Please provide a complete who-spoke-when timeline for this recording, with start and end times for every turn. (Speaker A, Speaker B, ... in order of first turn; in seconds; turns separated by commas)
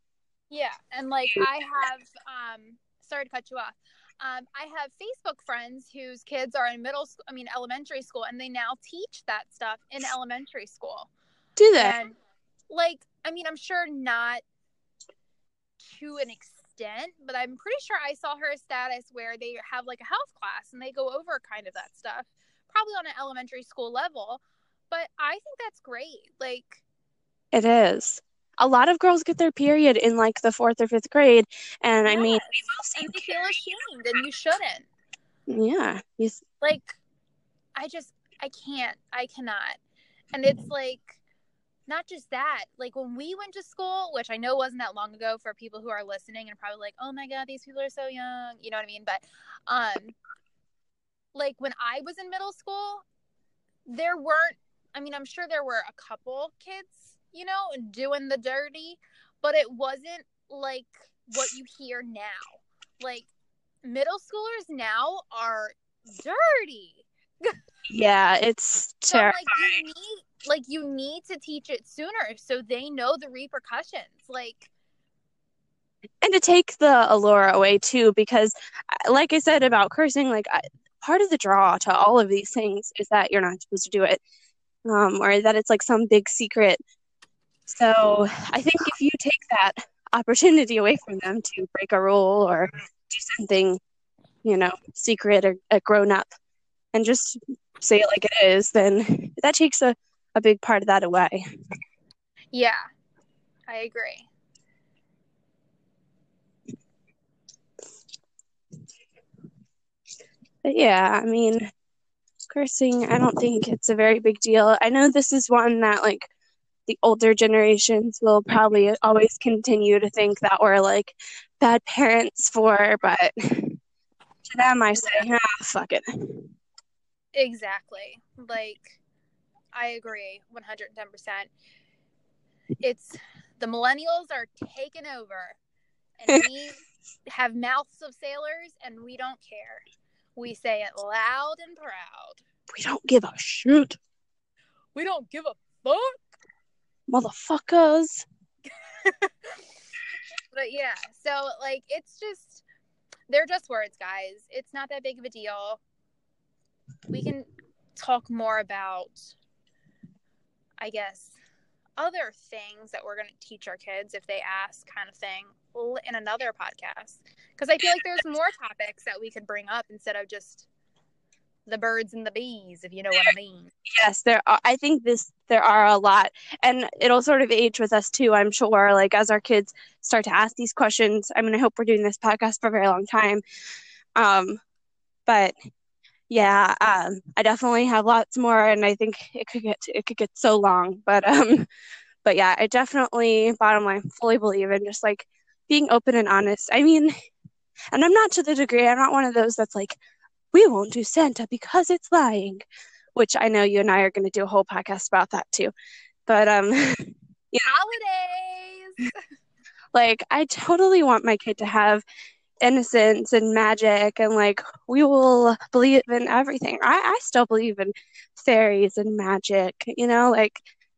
Speaker A: 0.5-11.1, Speaker B: 11.6-12.0, Speaker A: 11.8-12.2, Speaker A: 12.7-14.4, Speaker A: 15.8-26.8, Speaker B: 27.5-33.6, Speaker A: 32.1-34.9, Speaker B: 35.5-36.4, Speaker A: 36.6-37.0, Speaker A: 37.8-39.8, Speaker A: 40.3-41.2, Speaker A: 41.9-50.2, Speaker A: 51.4-53.0, Speaker A: 53.9-63.3, Speaker A: 63.8-67.6, Speaker B: 67.9-69.8, Speaker A: 69.1-74.7, Speaker B: 76.2-78.5, Speaker B: 79.0-84.2, Speaker B: 84.8-86.8, Speaker B: 87.7-93.8, Speaker B: 94.4-96.3, Speaker B: 96.9-101.4, Speaker A: 102.5-102.8, Speaker A: 103.7-104.3, Speaker B: 110.6-111.7, Speaker B: 112.5-116.3, Speaker B: 116.9-123.8, Speaker B: 124.4-126.5, Speaker A: 127.3-129.0, Speaker A: 129.7-131.5, Speaker A: 132.8-135.6, Speaker A: 136.2-139.8, Speaker A: 140.4-142.4, Speaker B: 142.7-144.0, Speaker A: 144.9-146.2, Speaker B: 147.1-148.3, Speaker A: 148.8-149.6, Speaker A: 150.5-152.6, Speaker A: 153.3-155.8, Speaker A: 157.1-159.3, Speaker A: 160.8-161.4, Speaker A: 162.0-170.7, Speaker A: 171.7-173.7, Speaker B: 173.9-183.4, Speaker B: 184.2-184.6, Speaker B: 185.3-185.5, Speaker B: 186.3-191.7, Speaker B: 192.2-197.1, Speaker B: 197.9-200.0, Speaker B: 200.5-205.7, Speaker B: 206.3-207.7, Speaker A: 207.7-209.2, Speaker B: 209.9-212.0, Speaker B: 212.6-220.6